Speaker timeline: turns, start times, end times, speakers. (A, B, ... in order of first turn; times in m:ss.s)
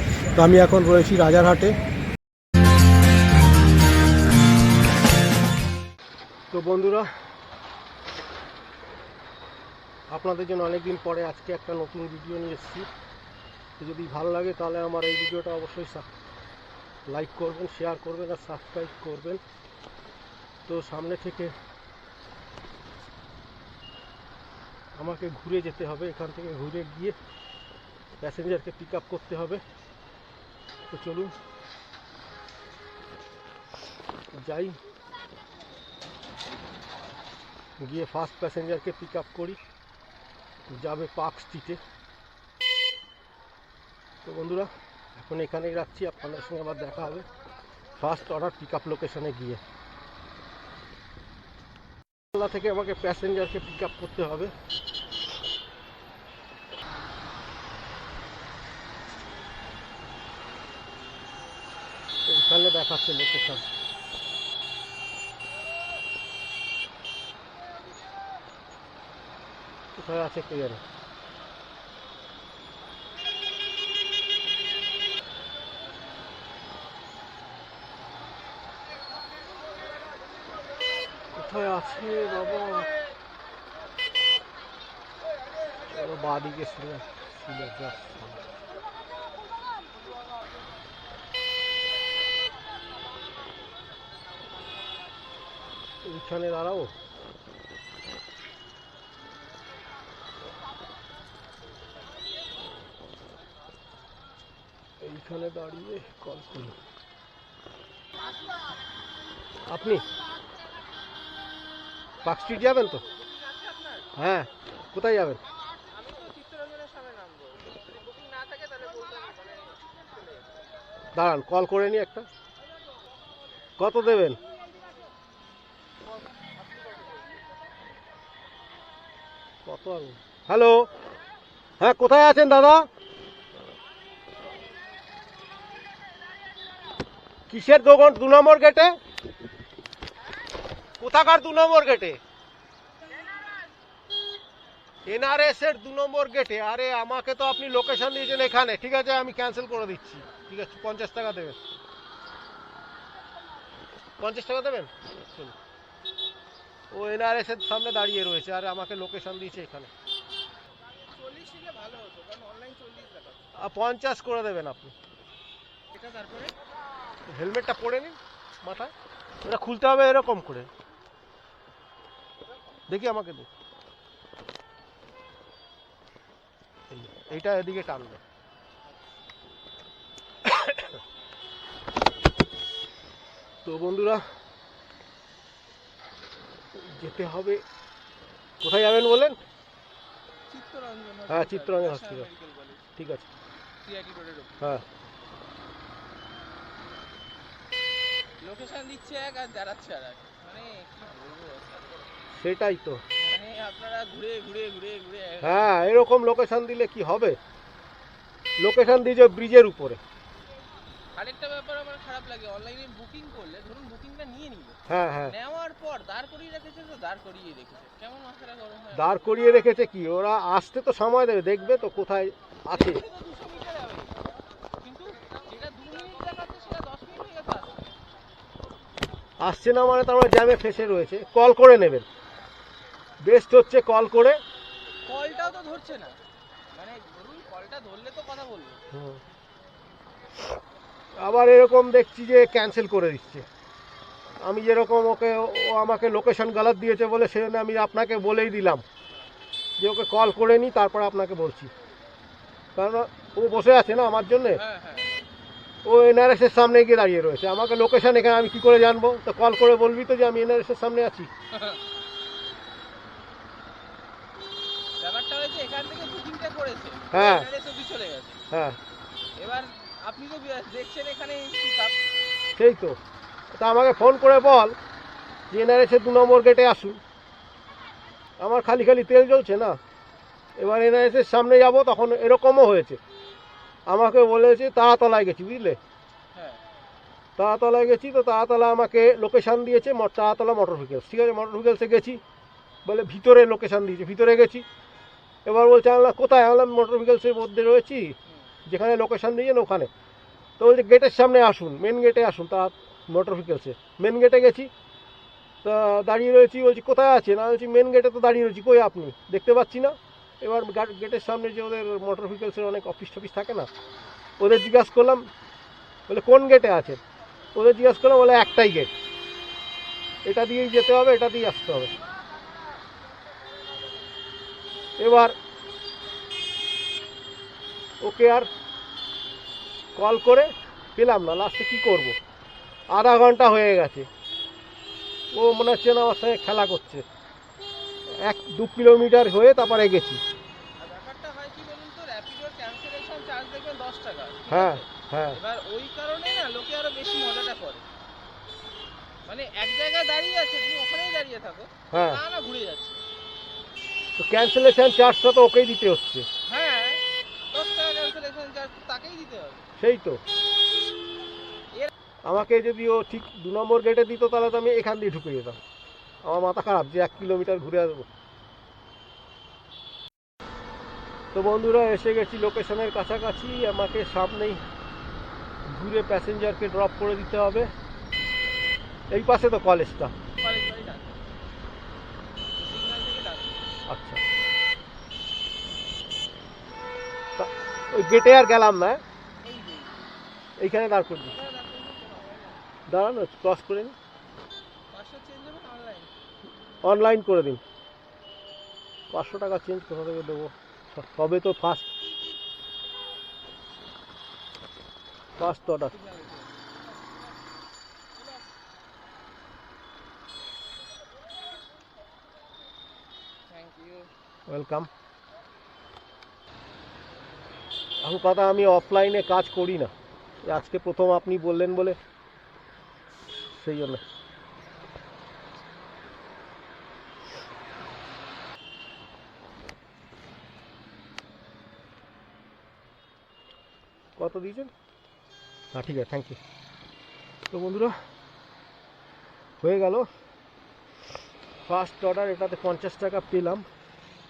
0:00.3-0:01.8 A
0:06.5-0:07.1 A
0:10.1-0:12.9 A
0:13.8-0:16.1 A
0:17.1-0:19.4 A
0:20.7-0:21.5 A
0:25.0-0:27.2 A
0:28.2-0:29.6 A
0:30.9-0:31.3 A
0:34.3-0:34.8 A
0:37.8-0:39.6 A
0:40.7-0:41.8 A
0:44.2-0:47.3 A
0:48.0-0:49.6 A
0:52.3-0:54.5 A
1:02.3-1:03.6 A
1:10.0-1:10.8 A
1:21.3-1:22.9 A
1:25.9-1:28.4 A
1:36.0-1:36.9 A
1:45.0-1:46.8 A
1:49.7-1:50.0 A
1:52.2-1:53.0 A
1:53.2-1:54.1 B
1:54.2-1:55.4 A
1:55.8-2:00.3 B
2:01.1-2:02.3 A
2:03.8-2:04.4 A
2:09.6-2:10.9 A
2:11.8-2:12.8 A
2:17.5-2:19.0 A
2:21.0-2:22.2 A
2:25.1-2:31.6 A
2:34.2-2:35.5 A
2:36.9-2:39.9 A
2:41.1-2:43.4 B
2:43.6-2:44.9 A
2:45.9-2:46.6 B
2:47.3-2:48.9 A
2:49.4-2:50.7 A
2:52.9-2:53.5 A
2:56.9-2:58.2 A
3:00.5-3:00.9 A
3:03.6-3:04.2 A
3:06.7-3:07.6 A
3:08.6-3:09.4 A
3:10.5-3:12.8 B
3:11.3-3:12.3 A
3:13.0-3:13.3 A
3:13.8-3:14.6 B
3:18.4-3:22.0 B
3:22.3-3:23.0 A
3:23.2-3:25.7 B
3:25.4-3:27.4 A
3:28.6-3:30.0 A
3:31.1-3:39.4 B
3:34.9-3:35.3 A
3:38.9-3:43.0 A
3:42.7-3:44.2 B
3:44.8-3:47.9 B
3:49.4-3:52.0 A
3:53.2-3:54.4 A
3:55.1-3:56.2 B
3:56.7-3:58.8 B
3:58.9-3:59.2 A
4:01.2-4:03.4 A
4:04.4-4:08.8 A
4:09.8-4:11.7 A
4:12.7-4:14.6 A
4:14.5-4:15.2 B
4:15.8-4:21.3 A
4:21.5-4:21.8 B
4:25.0-4:28.4 B
4:27.1-4:27.5 A
4:28.5-4:28.8 A
4:29.4-4:32.0 B
4:32.5-4:33.0 A
4:33.5-4:34.8 A
4:35.5-4:37.0 A
4:38.4-4:39.8 A
4:40.6-4:43.0 A
4:43.8-4:45.8 A
4:46.3-4:46.6 B
4:47.4-4:52.2 A
4:52.8-4:54.6 A
4:55.4-4:59.9 A
5:00.6-5:04.7 A
5:05.6-5:13.7 A
5:14.4-5:15.3 A
5:16.1-5:17.0 A
5:17.5-5:18.9 A
5:20.2-5:21.9 A
5:25.0-5:25.3 A
5:28.0-5:28.5 A
5:30.0-5:32.2 A
5:32.9-5:34.1 A
5:35.3-5:37.0 A
5:38.2-5:40.2 A
5:40.8-5:47.8 B
5:44.5-5:45.4 A
5:49.2-5:53.0 B
5:51.9-5:52.2 A
5:54.2-5:56.3 A
5:56.5-5:59.6 B
5:59.8-6:00.2 A
6:02.2-6:05.6 A
6:06.2-6:08.1 A
6:11.3-6:14.6 A
6:15.6-6:17.7 A
6:19.1-6:20.1 A
6:20.4-6:21.2 B
6:22.5-6:23.6 B
6:23.9-6:24.2 A
6:27.4-6:29.0 A
6:29.4-6:30.0 B
6:30.6-6:31.3 A
6:31.2-6:32.6 B
6:32.9-6:33.9 A
6:34.9-6:36.1 B
6:36.8-6:37.6 A
6:39.1-6:41.9 A
6:45.4-6:45.9 A
6:45.9-6:46.5 B
6:53.5-6:54.1 B
6:54.5-6:54.9 A
6:58.0-6:59.9 A
7:00.4-7:02.0 A
7:03.5-7:04.0 A
7:14.2-7:14.7 A
7:15.7-7:16.4 A
7:17.5-7:17.9 A
7:19.6-7:20.1 A
7:21.6-7:23.7 A